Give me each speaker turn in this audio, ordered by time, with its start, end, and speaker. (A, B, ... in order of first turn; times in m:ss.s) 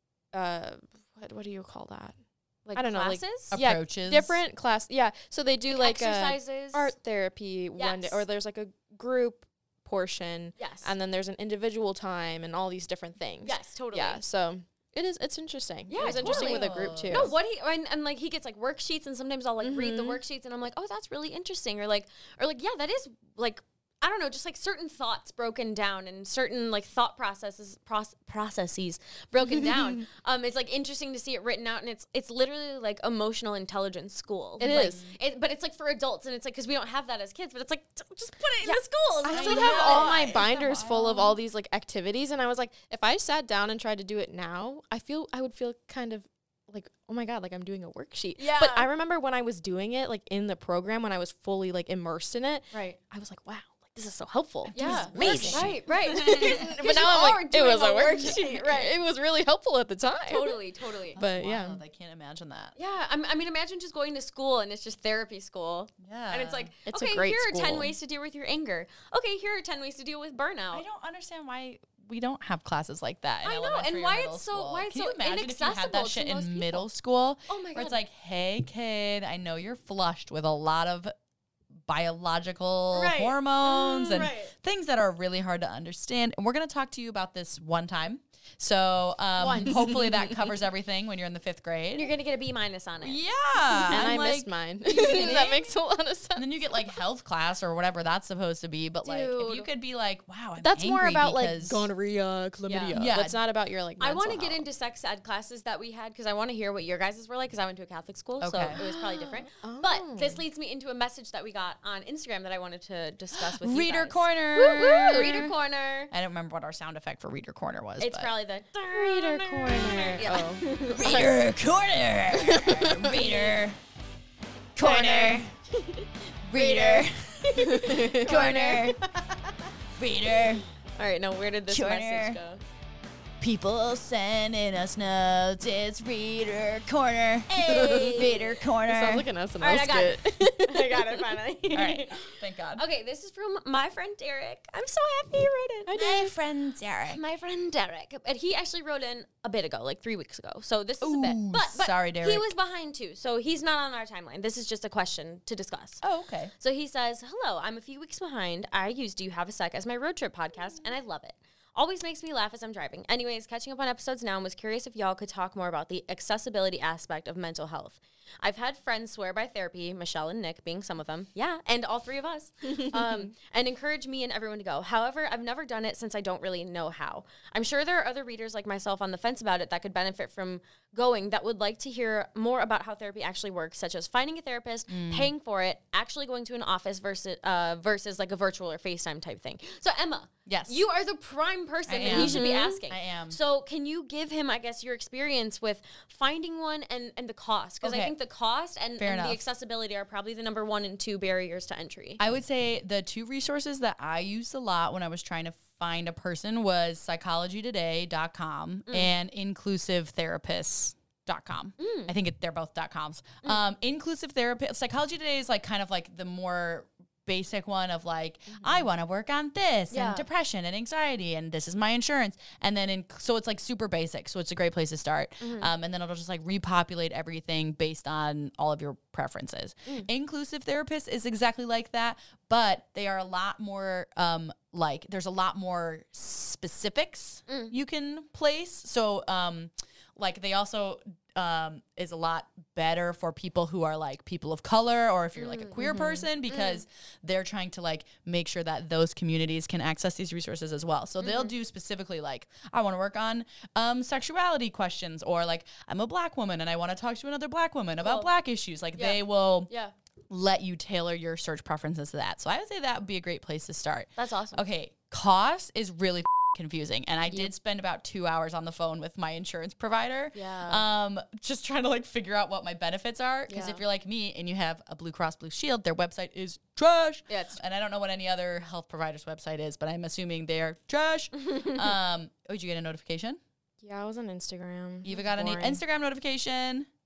0:00.3-0:02.2 A
0:02.7-0:17.3 A
0:02.7-0:03.5 B
0:03.5-0:04.4 C
0:05.7-0:06.9 B
0:07.8-0:08.2 B
0:10.6-0:10.9 B
0:13.4-0:14.2 B
0:15.9-0:40.2 B
0:16.0-0:17.3 C
0:19.6-0:20.2 A
0:29.5-0:29.9 A
0:34.6-0:35.0 A
0:34.6-0:35.2 C
0:38.6-1:00.6 A
0:39.3-0:41.4 C
0:48.4-0:48.9 B
0:52.7-0:53.0 B
0:54.7-0:56.5 C
0:54.8-0:58.9 B
1:00.3-1:01.2 B
1:01.2-1:01.8 A
1:01.2-1:02.7 C
1:02.8-1:10.8 B
1:06.0-1:06.7 C
1:06.8-1:07.9 A
1:10.7-1:21.1 C
1:13.4-1:16.8 B
1:17.5-1:18.0 B
1:21.8-1:32.1 C
1:22.9-1:24.5 B
1:29.4-1:29.8 B
1:29.4-1:30.5 A
1:32.0-1:33.2 B
1:33.0-1:35.7 C
1:33.7-1:34.2 B
1:33.9-1:36.8 A
1:35.0-1:35.4 B
1:36.4-1:41.9 C
1:39.0-1:39.7 B
1:40.6-1:44.6 A
1:42.7-1:43.0 B
1:42.9-1:43.4 C
1:44.0-1:56.1 B
1:48.4-1:48.8 C
1:48.7-1:50.4 A
1:53.3-1:55.5 C
1:56.1-1:58.3 C
1:58.0-2:01.3 B
1:58.9-2:00.6 A
2:00.8-2:03.8 C
2:02.4-2:03.2 A
2:03.2-2:03.5 B
2:04.8-2:05.4 C
2:04.8-2:09.0 B
2:06.4-2:09.0 C
2:07.6-2:08.7 A
2:10.0-2:10.6 C
2:11.0-2:12.6 B
2:11.7-2:12.4 C
2:13.4-2:19.3 C
2:17.5-2:18.6 B
2:17.6-2:21.4 A
2:19.6-2:25.9 B
2:21.7-2:22.8 C
2:25.8-2:26.3 A
2:25.9-2:27.2 C
2:27.1-2:36.0 B
2:31.0-2:32.4 C
2:36.0-2:36.5 C
2:36.6-3:22.2 B
3:04.9-3:05.3 C
3:10.4-3:10.8 C
3:11.8-3:13.4 C
3:12.0-3:12.8 A
3:17.8-3:18.1 C
3:19.0-3:19.4 C
3:22.2-4:19.7 C
3:31.8-3:32.1 B
3:39.9-3:40.2 B
3:45.4-3:45.7 B
3:57.5-3:57.7 B
4:05.4-4:06.8 B
4:11.2-4:11.5 B
4:18.0-4:18.3 B
4:19.0-4:19.9 B
4:20.3-4:43.4 C
4:24.2-4:24.6 B
4:30.3-4:30.8 B
4:33.5-4:33.8 B
4:37.3-4:37.6 B
4:41.5-4:41.9 B
4:43.8-4:45.8 A
4:45.0-4:46.9 C